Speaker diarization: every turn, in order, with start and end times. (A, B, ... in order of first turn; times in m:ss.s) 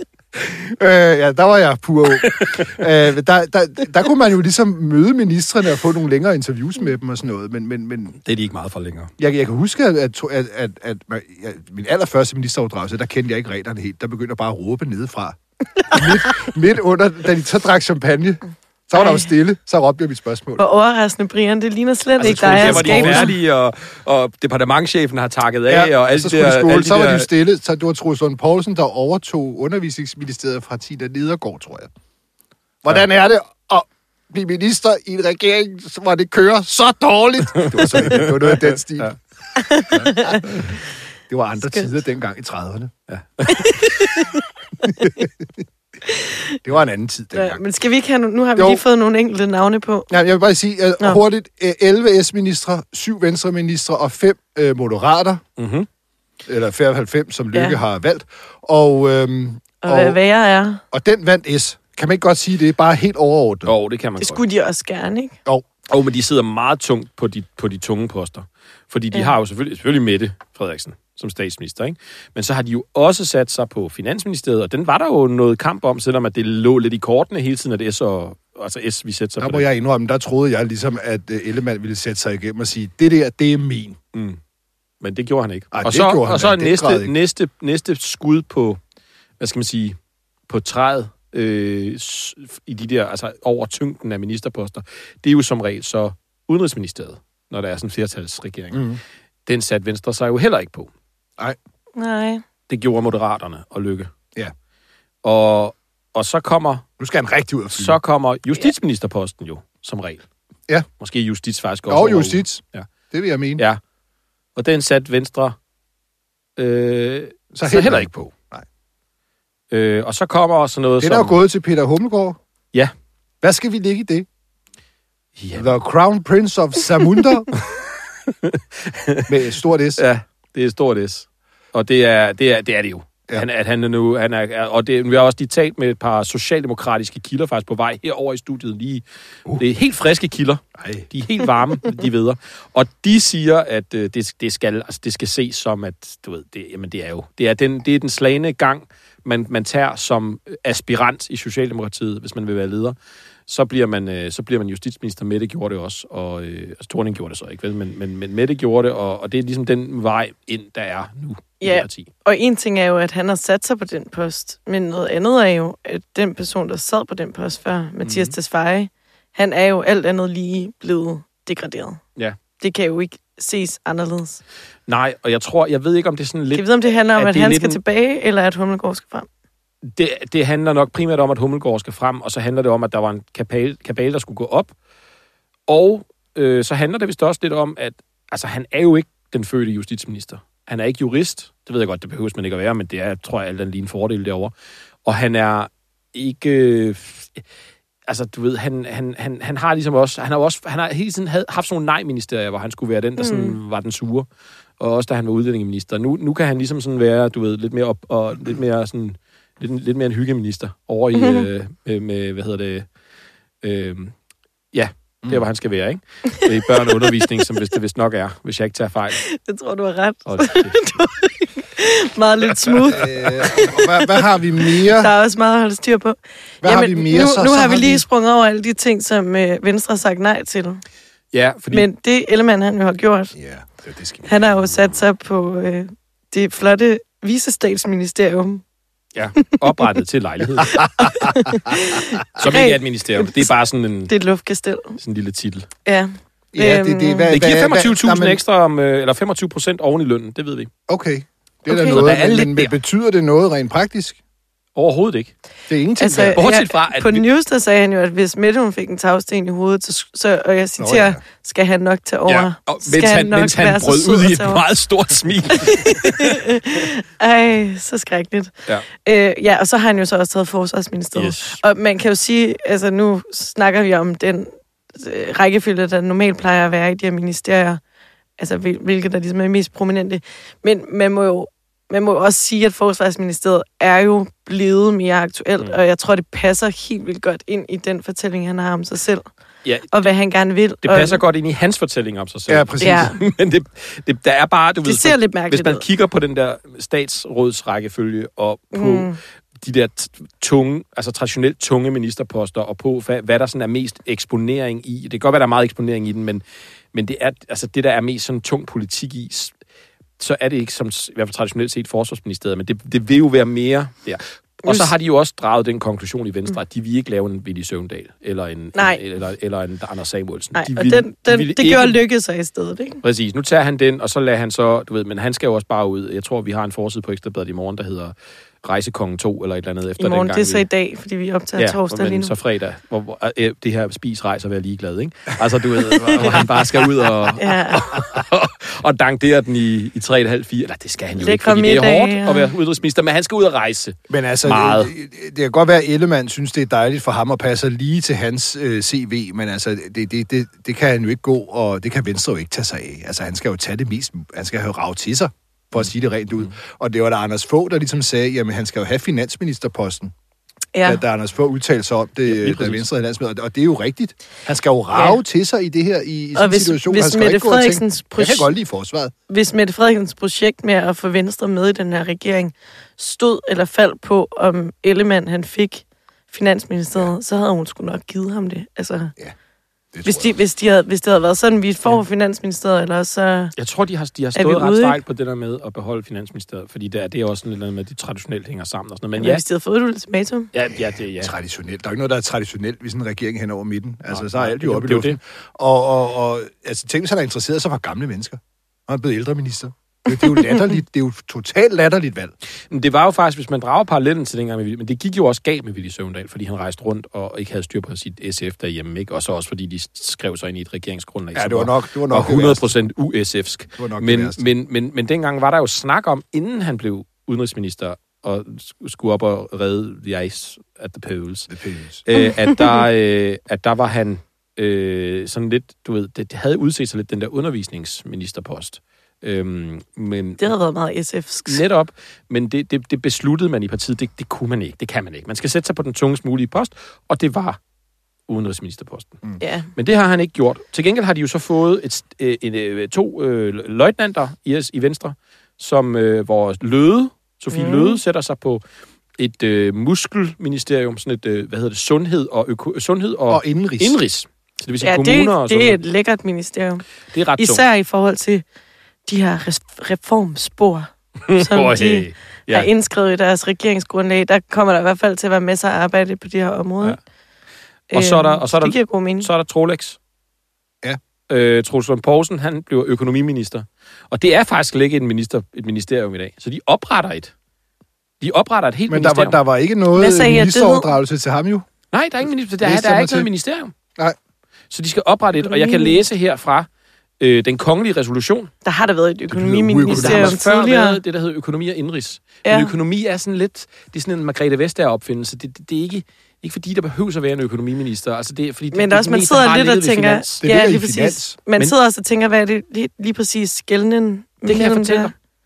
0:00.4-0:08.2 A
0:02.2-0:02.7 B
0:08.2-0:09.1 B
0:09.2-0:20.6 A
0:20.6-0:23.4 C
0:22.2-0:23.4 A
0:22.2-0:27.3 B
0:25.7-0:31.9 A
0:32.8-0:39.2 A
0:37.7-0:38.6 B
0:39.6-0:40.5 C
0:39.8-0:40.8 A
0:41.3-0:42.9 A
0:43.1-0:44.2 B
0:43.5-0:44.4 C
0:44.8-0:45.3 A
0:46.0-0:46.6 C
0:46.6-0:47.6 A
0:47.3-0:50.1 C
0:48.6-0:48.8 A
0:50.1-0:55.4 A
0:55.6-0:55.9 B
0:56.5-1:00.2 A
0:57.5-0:57.8 C
0:59.8-1:00.8 C
1:00.9-1:03.7 A
1:03.7-1:04.4 B
1:04.2-1:05.4 C
1:05.9-1:19.6 B
1:19.4-1:24.0 A
1:24.1-1:24.4 B
1:25.0-1:28.8 B
1:25.7-1:27.1 A
1:29.4-1:30.0 B
1:30.5-1:38.8 B
1:38.7-1:39.0 A
1:39.5-1:40.9 B
1:42.0-1:42.4 C
1:42.7-1:44.1 B
1:45.2-1:46.9 B
1:47.0-1:48.0 A
1:47.8-1:50.2 B
1:51.0-1:52.9 B
1:51.9-1:53.6 A
1:54.6-1:55.6 B
1:56.6-1:58.3 B
1:57.5-1:58.6 A
1:59.7-2:01.4 B
2:01.0-2:02.4 A
2:03.4-2:04.3 A
2:05.4-2:05.7 B
2:05.6-2:07.5 A
2:08.3-2:09.4 B
2:09.3-2:10.0 A
2:10.0-2:19.0 B
2:19.6-2:33.0 B
2:20.8-2:21.1 A
2:33.5-2:42.1 B
2:41.6-2:52.0 C
2:48.0-2:48.3 B
2:52.6-2:54.4 C
2:54.9-2:57.8 B
2:56.5-2:59.3 C
2:59.8-3:04.7 B
3:05.7-3:14.5 B
3:15.0-3:17.4 B
3:18.1-3:24.3 B
3:23.2-3:23.6 C
3:24.8-3:32.9 B
3:31.1-3:31.5 C
3:33.6-3:34.1 B
3:34.7-3:39.2 B
3:36.8-3:37.2 C
3:39.2-3:44.0 C
3:40.3-3:40.9 B
3:42.9-3:45.1 A
3:44.6-3:50.8 C
3:46.6-3:48.0 A
3:51.3-3:51.9 B
3:51.7-3:53.3 C
3:53.4-3:54.9 A
3:54.2-3:58.6 C
3:59.2-4:01.1 B
4:00.8-4:03.6 C
4:01.0-4:01.3 A
4:02.4-4:04.1 B
4:04.1-4:05.0 C
4:05.0-4:05.7 B
4:05.9-4:07.4 C
4:06.5-4:08.4 A
4:07.3-4:10.7 B
4:10.9-4:14.2 A
4:11.7-4:12.0 C
4:11.8-4:12.7 B
4:14.8-4:15.3 B
4:15.7-4:16.4 A
4:16.0-4:24.6 C
4:16.4-4:17.2 B
4:20.8-4:21.2 A
4:22.3-4:26.5 B
4:25.6-4:37.8 C
4:31.2-4:31.6 B
4:38.4-4:49.3 C
4:49.6-4:50.0 B
4:49.9-4:51.2 C
4:50.8-5:09.5 B
4:52.5-4:53.2 A
4:52.8-4:53.2 C
4:54.8-4:55.8 C
4:58.7-4:59.2 C
5:10.2-5:22.0 B
5:14.6-5:14.9 C
5:18.8-5:19.0 C
5:20.6-5:23.0 C
5:23.0-5:30.7 B
5:30.0-5:32.4 C
5:31.6-5:44.9 B
5:36.1-5:36.5 C
5:37.4-5:37.9 C
5:41.2-5:42.5 C
5:44.1-6:00.1 A
6:00.7-6:01.0 C
6:00.8-6:09.1 A
6:02.3-6:02.8 B
6:06.4-6:08.5 C
6:09.3-6:19.1 C
6:19.9-6:20.3 A
6:20.1-6:23.5 C
6:23.6-6:29.4 B
6:24.4-6:25.0 C
6:29.2-6:30.5 C
6:30.5-6:31.3 B
6:31.2-6:42.3 A
6:34.1-6:35.2 B
6:42.7-7:01.5 B
6:51.4-6:52.7 A
6:53.8-6:54.4 A
7:01.5-7:02.0 A
7:02.1-7:10.5 B
7:02.2-7:02.8 C
7:10.4-7:11.6 C
7:11.5-7:17.6 B
7:18.3-7:19.2 B
7:19.4-7:19.7 C
7:19.8-7:28.6 B
7:27.5-7:28.0 C
7:29.2-7:35.8 B
7:33.3-7:34.0 A
7:34.8-7:36.8 C
7:37.1-7:37.6 B
7:37.4-7:38.4 C
7:39.1-7:47.0 C
7:41.3-7:42.7 B
7:47.9-7:49.3 C
7:47.9-7:50.0 B
7:51.3-7:57.3 B
7:58.2-7:59.4 B
7:58.9-8:01.7 A
7:59.9-8:00.9 C
8:01.9-8:03.7 B
8:02.6-8:03.3 A
8:04.7-8:06.7 B
8:05.4-8:06.0 C
8:07.2-8:08.5 B
8:08.6-8:11.0 C
8:09.3-8:10.4 A
8:09.9-8:20.4 B
8:12.4-8:12.8 C
8:18.7-8:25.1 C
8:20.4-8:21.4 A
8:24.4-8:25.1 B